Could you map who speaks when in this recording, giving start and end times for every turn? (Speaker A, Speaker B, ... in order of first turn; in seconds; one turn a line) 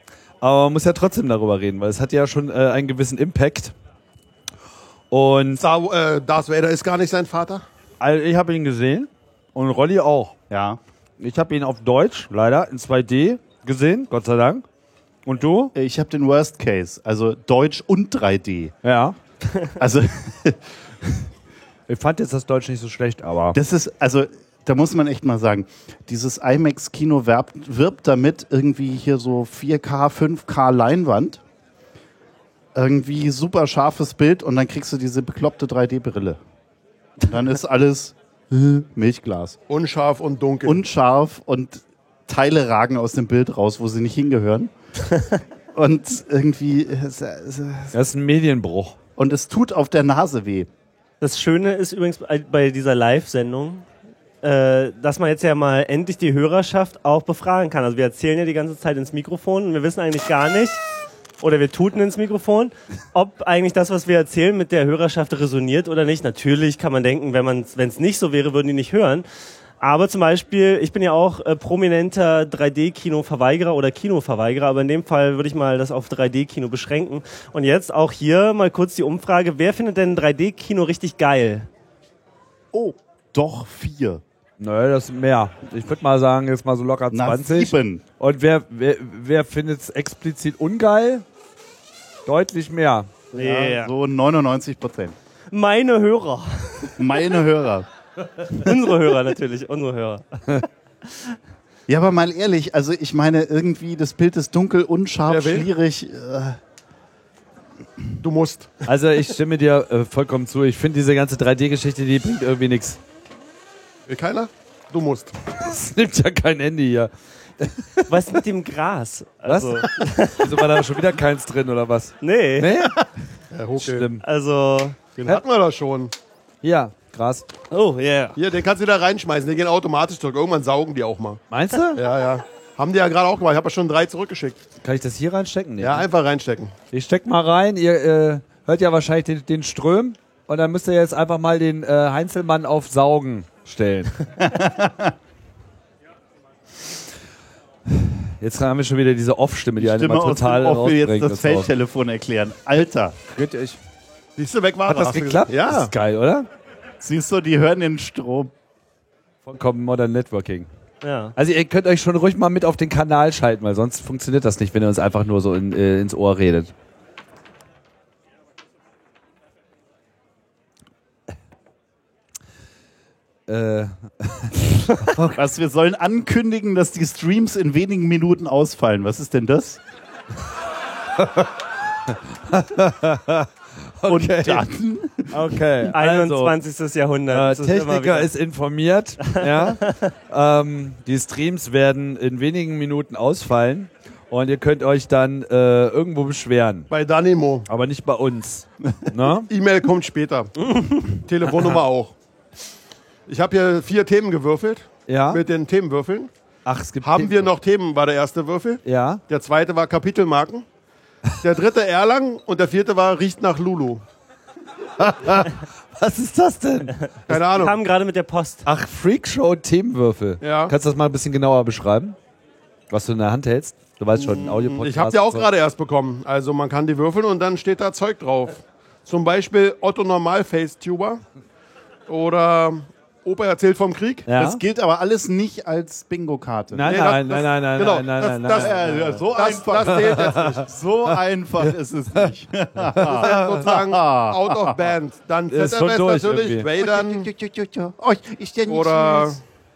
Speaker A: 0.4-3.7
Speaker A: 5.1-5.6
Speaker B: 5.6-7.6
Speaker A: 8.0-10.3
Speaker C: 10.5-10.8
Speaker A: 11.2-14.7
Speaker A: 15.3-15.7
Speaker C: 15.8-18.7
Speaker A: 18.8-19.2
Speaker C: 19.8-21.3
Speaker A: 21.9-23.6
Speaker C: 23.5-31.4
Speaker C: 32.8-36.4
Speaker C: 37.2-39.6
Speaker B: 39.7-40.8
Speaker C: 40.6-44.7
Speaker C: 45.7-48.0
Speaker A: 47.9-49.0
Speaker C: 49.2-50.7
Speaker D: 51.2-53.9
Speaker D: 54.4-60.8
Speaker D: 61.4-69.3
Speaker D: 69.8-81.7
Speaker C: 82.7-84.2
Speaker A: 84.6-91.2
Speaker C: 87.1-88.0
Speaker A: 92.3-93.1
Speaker C: 93.3-95.2
Speaker D: 93.3-93.9
Speaker D: 95.5-97.2
Speaker C: 97.0-97.9
Speaker D: 98.4-100.6
Speaker C: 101.9-106.6
Speaker B: 105.3-105.7
Speaker B: 108.2-108.8
Speaker A: 108.9-113.0
Speaker B: 114.1-115.3
Speaker A: 115.5-118.1
Speaker D: 118.1-120.6
Speaker A: 119.5-123.1
Speaker D: 122.2-122.7
Speaker B: 123.5-124.1
Speaker A: 123.8-124.2
Speaker D: 124.2-125.0
Speaker B: 125.2-126.1
Speaker A: 126.6-127.5
Speaker D: 127.7-128.4
Speaker B: 128.4-131.4
Speaker A: 131.5-132.0
Speaker B: 131.9-134.6
Speaker A: 134.8-136.1
Speaker B: 135.8-136.7
Speaker A: 136.9-144.2
Speaker C: 144.4-145.1
Speaker A: 147.9-151.7
Speaker C: 149.8-153.2
Speaker A: 153.3-153.8
Speaker B: 154.4-155.9
Speaker A: 154.9-156.5
Speaker C: 157.0-158.5
Speaker A: 159.4-160.7
Speaker D: 161.0-161.3
Speaker A: 161.4-166.7
Speaker A: 173.5-175.4
Speaker C: 175.2-179.8
Speaker A: 181.2-181.6
Speaker A: 182.1-184.7
Speaker C: 184.1-185.5
Speaker A: 185.3-186.6
Speaker D: 185.3-188.3
Speaker A: 187.3-196.9
Speaker D: 189.3-190.0
Speaker B: 196.9-197.7
Speaker A: 197.7-199.5
Speaker B: 199.5-202.2
Speaker D: 200.6-201.1
Speaker B: 203.3-206.3
Speaker A: 205.1-205.4
Speaker A: 206.7-207.5
Speaker B: 207.0-210.7
Speaker A: 208.8-209.2
Speaker B: 211.4-214.0
Speaker A: 215.0-217.0
Speaker B: 217.3-217.8
Speaker D: 217.3-218.7
Speaker A: 218.7-222.2
Speaker B: 220.4-220.7
Speaker A: 222.9-225.5
Speaker B: 224.2-231.2
Speaker B: 232.1-234.3
Speaker A: 234.3-234.6
Speaker C: 234.4-237.0
Speaker A: 236.7-239.0
Speaker B: 236.9-240.7
Speaker C: 238.5-244.9
Speaker A: 239.8-240.6
Speaker A: 241.6-242.3
Speaker A: 242.9-243.7
Speaker B: 243.0-247.3
Speaker A: 245.5-246.7
Speaker C: 246.8-249.4
Speaker B: 248.7-249.4